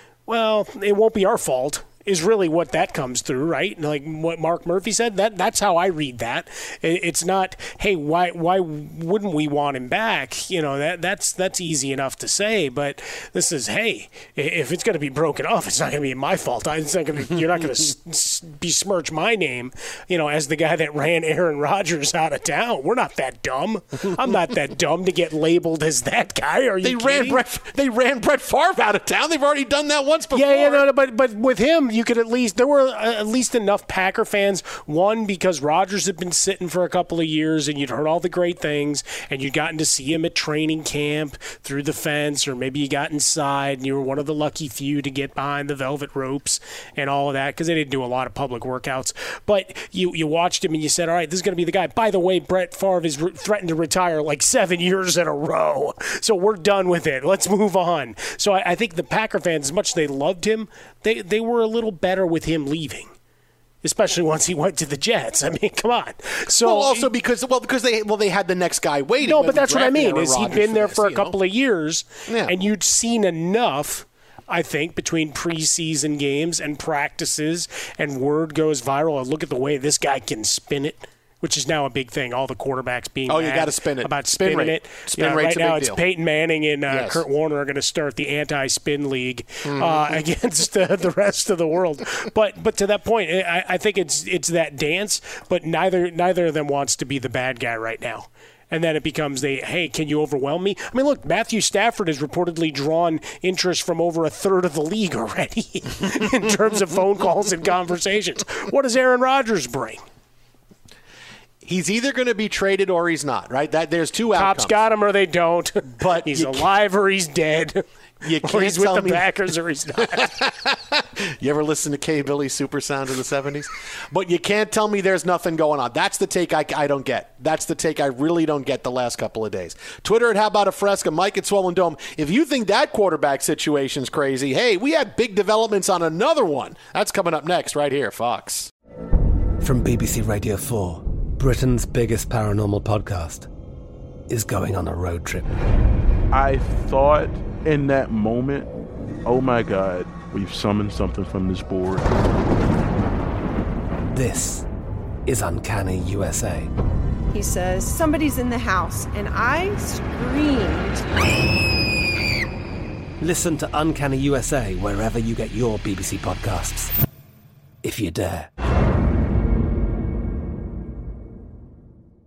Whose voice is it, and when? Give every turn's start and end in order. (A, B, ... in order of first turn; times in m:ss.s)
0:00.3-0:27.4 A
0:26.8-0:30.8 B
0:30.3-1:03.1 A
1:03.8-1:07.1 A
1:06.5-1:11.3 B
1:09.2-1:50.0 A
1:12.3-1:12.5 B
1:23.3-1:26.0 B
1:26.9-1:27.2 B
1:29.7-1:30.0 B
1:51.6-1:54.8 B
1:54.3-1:57.8 A
1:56.0-1:56.7 B
1:58.2-1:59.3 B
1:58.4-2:00.4 A
2:00.1-2:18.7 B
2:19.6-2:23.5 C
2:24.3-2:25.5 C
2:26.3-2:28.7 D
2:29.2-2:32.1 D
2:34.1-2:34.6 C
2:35.3-2:36.7 C
2:37.3-2:41.0 E
2:43.2-2:46.9 C
2:47.8-2:48.5 C